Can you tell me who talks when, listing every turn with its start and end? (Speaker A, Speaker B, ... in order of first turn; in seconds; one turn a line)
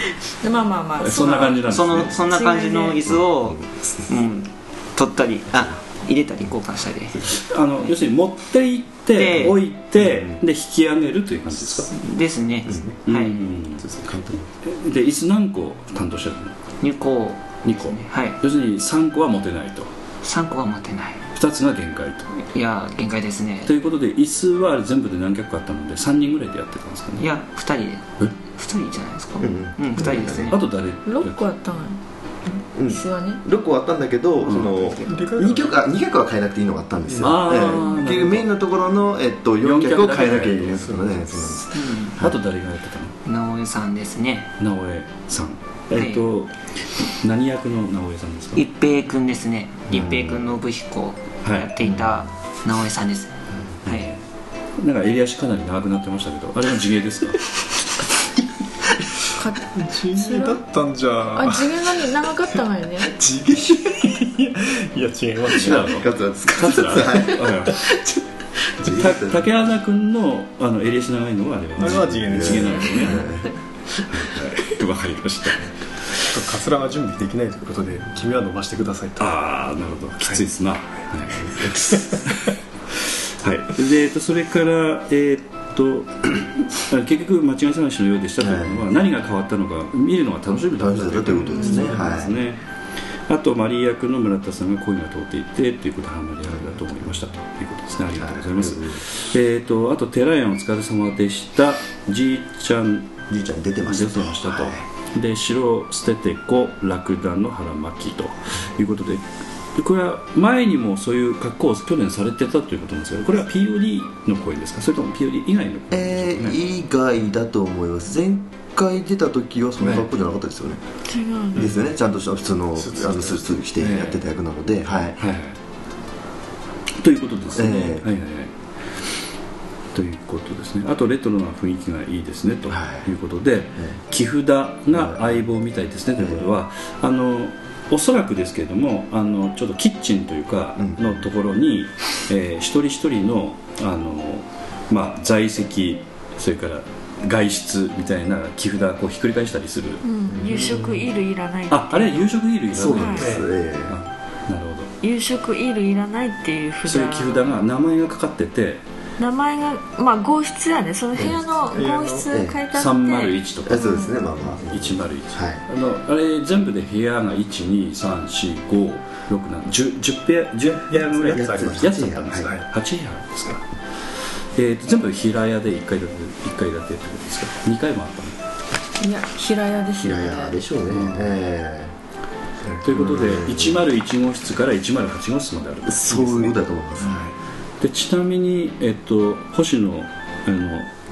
Speaker A: 0.4-3.0
Speaker B: 1.0-2.1
Speaker C: 1.7-7.3
Speaker D: 3.5-3.9
Speaker B: 7.4-11.9
Speaker C: 9.1-9.6
Speaker D: 10.0-10.4
Speaker C: 11.9-13.4
Speaker B: 13.1-13.9
Speaker D: 13.8-14.4
Speaker B: 14.6-16.6
Speaker C: 16.8-18.4
Speaker B: 17.6-19.9
Speaker C: 20.2-21.2
Speaker B: 21.3-22.3
Speaker C: 22.4-23.7
Speaker B: 23.6-27.3
Speaker C: 27.2-30.6
Speaker D: 29.4-30.5
Speaker B: 30.5-31.4
Speaker A: 31.0-32.0
Speaker D: 32.7-42.4
Speaker A: 32.9-33.4
Speaker E: 34.8-35.7
Speaker E: 37.1-37.3
Speaker B: 37.2-38.5
Speaker B: 39.6-40.9
Speaker E: 40.8-41.0
Speaker C: 41.7-42.2
Speaker B: 42.2-43.1
Speaker C: 43.2-44.5
Speaker B: 44.6-48.6
Speaker C: 45.9-46.2
Speaker C: 48.5-54.1
Speaker D: 49.9-50.4
Speaker B: 51.4-51.7
Speaker B: 53.8-54.2
Speaker B: 54.8-57.5
Speaker A: 59.3-60.6
Speaker E: 59.6-62.2
Speaker A: 61.3-63.1
Speaker E: 63.0-66.0
Speaker B: 65.5-67.8
Speaker D: 65.6-67.7
Speaker D: 68.8-69.5
Speaker B: 68.8-73.3
Speaker E: 71.8-73.2
Speaker D: 72.3-73.5
Speaker B: 74.0-76.1
Speaker E: 76.3-79.3
Speaker B: 79.2-92.6
Speaker E: 81.5-82.3
Speaker D: 88.4-88.8
Speaker D: 90.8-92.4
Speaker B: 93.3-103.1
Speaker D: 98.2-99.0
Speaker D: 103.3-104.8
Speaker B: 103.8-116.6
Speaker D: 115.9-120.8
Speaker B: 119.8-120.1
Speaker A: 121.1-121.6
Speaker D: 121.5-125.2
Speaker E: 122.8-123.5
Speaker B: 123.8-124.2
Speaker B: 125.1-125.6
Speaker B: 127.0-128.5
Speaker D: 127.5-128.1
Speaker B: 129.9-150.0
Speaker D: 132.7-133.1
Speaker D: 134.9-135.4
Speaker D: 136.2-136.5
Speaker D: 140.8-141.3
Speaker A: 150.0-152.3
Speaker D: 150.3-151.0
Speaker B: 151.7-154.9
Speaker D: 152.7-154.0
Speaker A: 152.9-153.3
Speaker A: 155.0-157.5
Speaker B: 156.8-158.8
Speaker A: 159.2-164.1
Speaker E: 161.7-162.3
Speaker D: 162.3-162.6
Speaker B: 162.7-163.9
Speaker D: 163.6-165.6
Speaker B: 164.5-173.6
Speaker E: 170.6-172.6
Speaker D: 171.3-172.5
Speaker B: 174.5-178.3
Speaker A: 179.0-180.6
Speaker D: 180.0-181.9
Speaker B: 180.9-181.3
Speaker D: 182.8-183.8
Speaker B: 182.8-187.2
Speaker D: 185.9-187.3
Speaker B: 187.8-190.9